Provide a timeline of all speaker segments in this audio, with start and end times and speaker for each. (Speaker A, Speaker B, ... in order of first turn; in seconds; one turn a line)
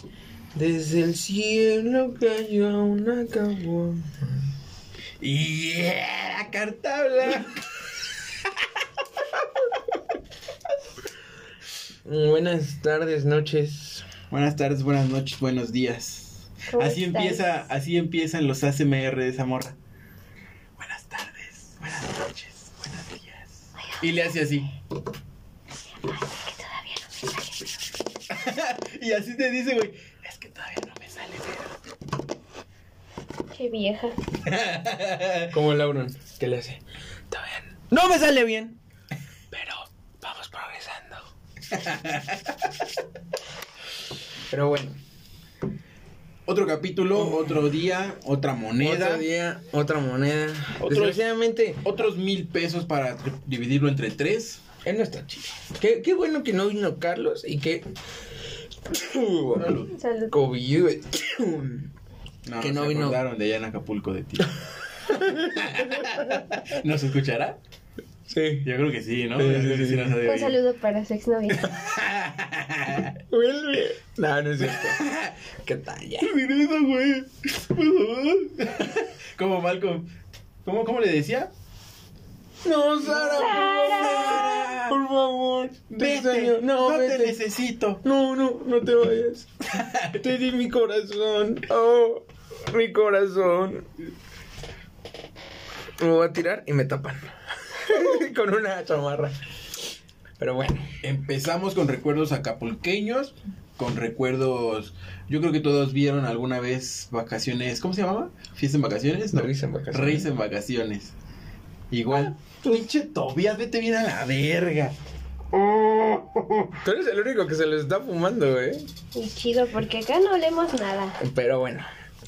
Speaker A: 0.5-4.2
Speaker B: 5.2-7.9
Speaker A: 12.1-14.1
Speaker B: 14.3-19.8
Speaker C: 16.7-17.5
Speaker B: 20.8-24.7
Speaker C: 26.0-27.6
Speaker B: 28.3-31.7
Speaker C: 33.5-34.2
Speaker B: 34.4-35.5
Speaker A: 35.5-38.8
Speaker A: 39.5-41.3
Speaker B: 41.7-42.6
Speaker A: 44.5-45.0
Speaker B: 46.5-49.3
Speaker A: 47.1-47.7
Speaker A: 48.8-51.9
Speaker B: 50.8-51.2
Speaker B: 51.8-54.6
Speaker A: 54.9-57.9
Speaker A: 58.9-61.9
Speaker B: 59.6-59.9
Speaker C: 59.9-60.4
Speaker B: 62.5-64.6
Speaker A: 62.6-63.2
Speaker A: 65.0-66.5
Speaker B: 65.1-67.6
Speaker A: 68.3-68.7
Speaker B: 68.6-70.6
Speaker A: 69.4-70.2
Speaker C: 70.2-71.8
Speaker B: 71.5-73.2
Speaker A: 73.3-75.0
Speaker B: 74.6-75.3
Speaker A: 75.7-76.3
Speaker B: 76.2-80.1
Speaker B: 80.6-81.5
Speaker A: 82.6-87.4
Speaker C: 83.2-84.8
Speaker B: 83.3-84.8
Speaker B: 85.9-88.0
Speaker A: 88.0-89.5
Speaker B: 89.7-90.2
Speaker A: 90.1-93.9
Speaker A: 96.0-99.4
Speaker A: 100.4-100.9
Speaker B: 101.0-111.1
Speaker A: 109.3-110.3
Speaker B: 111.9-115.0
Speaker A: 112.1-112.8
Speaker B: 115.5-116.7
Speaker A: 116.8-118.9
Speaker C: 119.1-121.2
Speaker A: 121.2-121.9